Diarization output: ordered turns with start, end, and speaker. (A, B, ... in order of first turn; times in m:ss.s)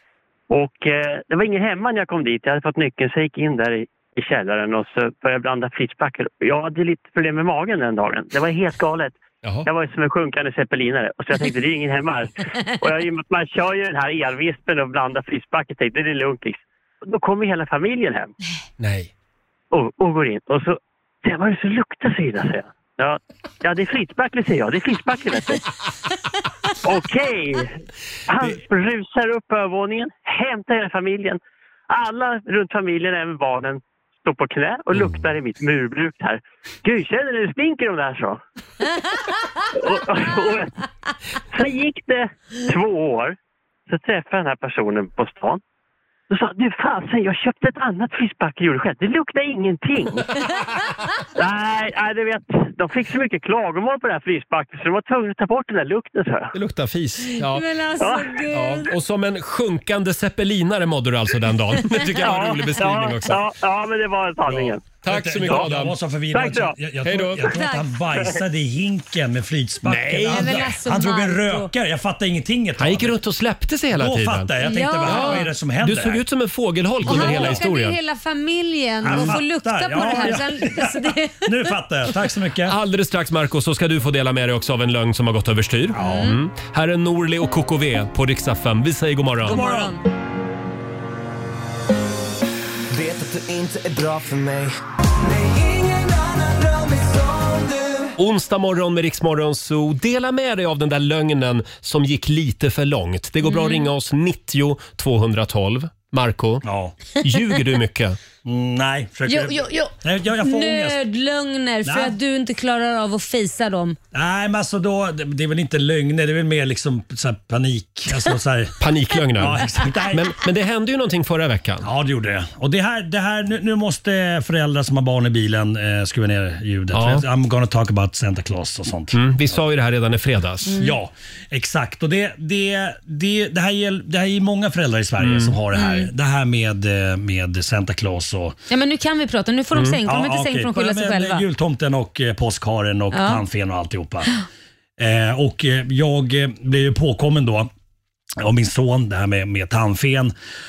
0:00.5-0:18.3 A
0:09.4-0:09.7 B
0:18.8-0:19.1 B
0:19.7-0:25.6 A
0:26.8-0:27.7 A
0:28.3-0:38.4 A
0:34.9-0:35.2 B
0:39.7-0:40.7 A
0:41.5-0:43.4 A
0:43.9-0:45.6 A
0:46.3-0:50.3 A
0:51.4-0:56.5 A
0:56.5-0:57.7 B
0:57.3-0:58.9 C
0:58.4-1:03.4 B
1:02.2-1:04.9 A
1:04.5-1:13.2 D
1:05.0-1:06.0 B
1:06.3-1:06.8 A
1:07.0-1:07.5 B
1:07.4-1:07.9 C
1:09.8-1:10.8 B
1:10.3-1:11.7 C
1:12.8-1:14.5 B
1:14.0-1:16.2 D
1:14.6-1:15.5 C
1:15.0-1:18.0 B
1:17.0-1:21.7 C
1:17.1-1:17.6 D
1:19.0-1:22.8 D
1:22.6-1:29.6 B
1:25.9-1:26.4 C
1:29.4-1:30.0 C
1:29.5-1:30.0 D
1:33.0-1:34.4 E
1:35.3-1:38.0 E
1:38.2-1:46.7 B
1:43.4-1:43.9 C
1:46.6-1:47.0 D
1:47.2-1:48.2 B
1:48.4-1:51.0 D
1:49.3-1:54.0 C
1:51.8-1:52.2 D
1:54.1-1:58.8 D
1:58.8-2:01.9 B
1:59.3-1:59.8 C
1:59.4-2:00.3 D
2:01.8-2:09.2 D
2:06.9-2:07.3 B
2:09.1-2:10.8 B
2:10.7-2:11.0 C
2:10.8-2:18.6 D
2:15.2-2:15.6 B
2:15.7-2:16.1 C
2:18.7-2:21.4 C
2:19.7-2:20.0 B
2:20.0-2:24.4 D
2:23.1-2:23.4 C
2:25.0-2:27.7 D
2:28.4-2:30.3 D